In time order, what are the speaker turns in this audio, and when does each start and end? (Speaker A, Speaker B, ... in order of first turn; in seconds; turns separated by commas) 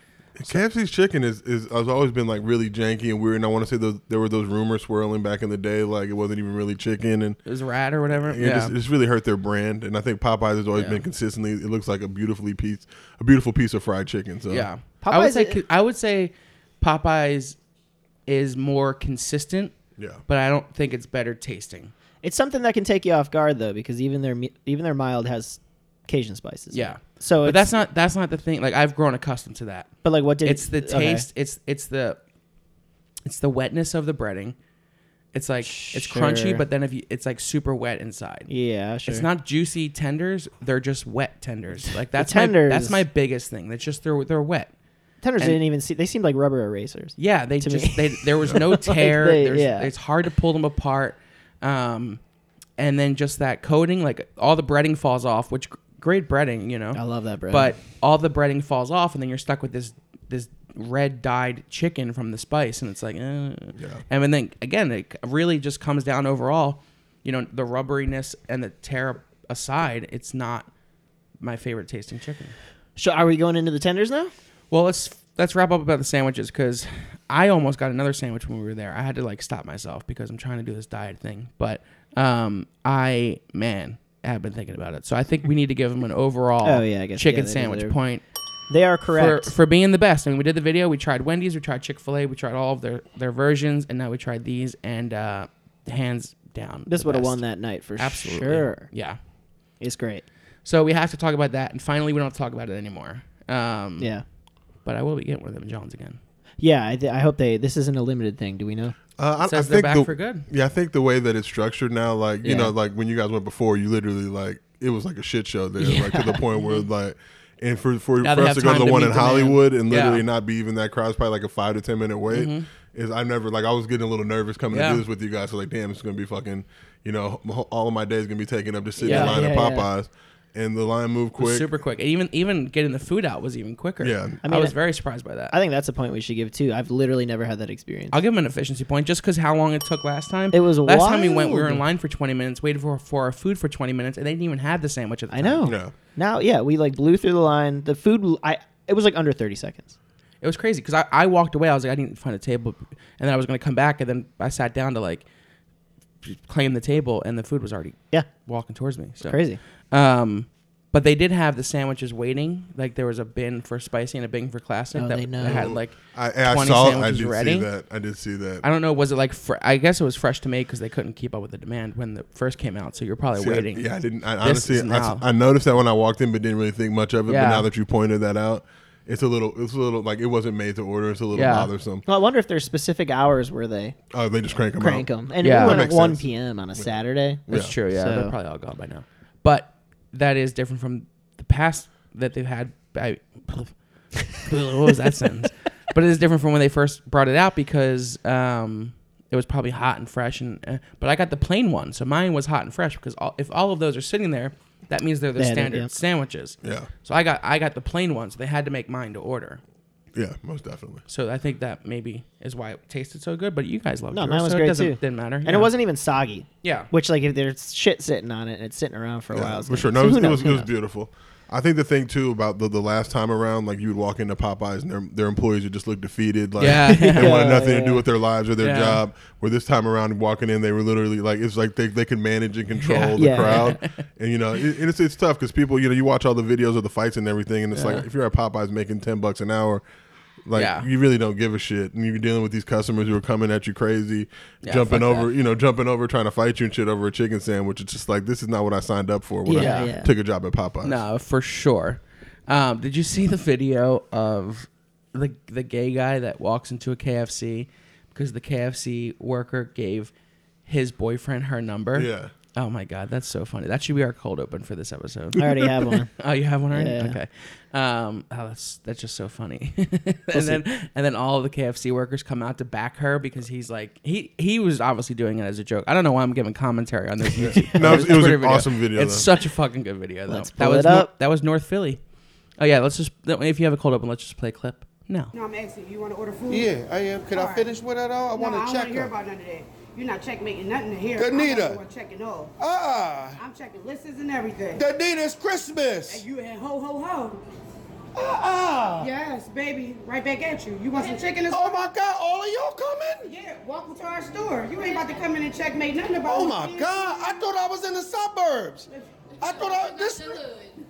Speaker A: 0.4-7.4, Speaker B: 7.5-8.7, Speaker A: 8.1-14.7, Speaker B: 10.8-11.0, Speaker B: 14.5-17.6, Speaker C: 15.0-15.6, Speaker B: 18.3-19.8, Speaker B: 20.3-21.9, Speaker C: 22.2-27.7, Speaker B: 26.7-29.9, Speaker C: 30.0-31.2, Speaker B: 30.4-32.2, Speaker B: 33.2-34.5, Speaker B: 35.3-38.5, Speaker C: 35.6-36.6, Speaker C: 38.5-39.2, Speaker B: 39.0-44.7, Speaker C: 42.1-43.0, Speaker C: 45.2-49.9, Speaker B: 47.2-52.2, Speaker B: 52.8-70.7, Speaker C: 56.9-57.7, Speaker A: 63.8-64.0, Speaker B: 71.4-72.5, Speaker C: 73.0-74.3, Speaker B: 74.7-88.2, Speaker C: 86.6-87.9, Speaker C: 88.7-89.5, Speaker B: 89.1-97.4, Speaker C: 96.9-98.9, Speaker B: 98.0-99.2, Speaker C: 99.8-100.2, Speaker B: 100.6-104.1, Speaker C: 104.0-104.2, Speaker B: 104.8-106.2, Speaker C: 106.6-109.0, Speaker A: 109.2-131.7, Speaker B: 109.4-110.5, Speaker C: 112.4-112.7, Speaker C: 115.8-116.4, Speaker B: 116.6-116.8, Speaker B: 118.2-120.2, Speaker B: 122.3-122.7, Speaker B: 124.7-125.0, Speaker C: 129.0-129.9, Speaker B: 129.0-129.4, Speaker B: 131.4-135.5, Speaker A: 134.0-134.4, Speaker C: 134.4-134.7, Speaker C: 135.5-138.2, Speaker B: 138.1-145.7, Speaker C: 140.5-141.8, Speaker C: 145.3-149.9, Speaker A: 145.6-145.9, Speaker B: 150.4-155.2, Speaker B: 156.2-159.4, Speaker C: 159.2-159.6, Speaker B: 159.9-167.7, Speaker C: 164.9-165.7, Speaker A: 165.4-168.6, Speaker B: 168.6-173.8, Speaker A: 173.4-182.0, Speaker B: 174.4-175.2, Speaker B: 177.3-177.7, Speaker B: 181.3-181.7, Speaker C: 182.1-184.0, Speaker A: 184.1-186.9, Speaker C: 184.8-188.3, Speaker B: 185.4-185.8, Speaker A: 187.5-187.7, Speaker B: 187.5-193.8, Speaker B: 194.3-209.6, Speaker C: 205.4-205.9, Speaker A: 206.6-206.9, Speaker A: 210.1-211.0, Speaker B: 211.1-215.7, Speaker C: 214.1-220.7, Speaker B: 216.6-216.9, Speaker A: 219.3-239.8, Speaker B: 226.6-227.4, Speaker C: 226.9-228.0, Speaker B: 228.6-229.0, Speaker B: 232.8-234.0, Speaker C: 233.2-233.8, Speaker B: 237.7-238.0, Speaker A: 240.4-251.0, Speaker B: 240.5-240.9, Speaker B: 244.6-245.3, Speaker C: 249.4-250.1, Speaker B: 249.5-249.9, Speaker B: 250.8-260.1, Speaker B: 260.6-282.0, Speaker A: 261.9-262.3, Speaker C: 265.4-266.1, Speaker C: 266.7-267.2, Speaker C: 270.3-270.6, Speaker A: 277.4-279.3, Speaker C: 277.8-278.0, Speaker C: 280.3-281.1, Speaker B: 282.6-285.3, Speaker D: 285.3-286.7, Speaker E: 286.5-289.1, Speaker D: 287.3-287.7, Speaker D: 288.3-292.5, Speaker E: 291.1-291.8, Speaker E: 292.6-293.4, Speaker D: 293.4-294.9, Speaker E: 294.7-296.2, Speaker D: 296.1-297.4, Speaker E: 298.1-299.1, Speaker D: 299.0-301.9, Speaker E: 301.5-303.3, Speaker D: 303.2-307.4, Speaker E: 306.2-308.9, Speaker E: 309.4-310.6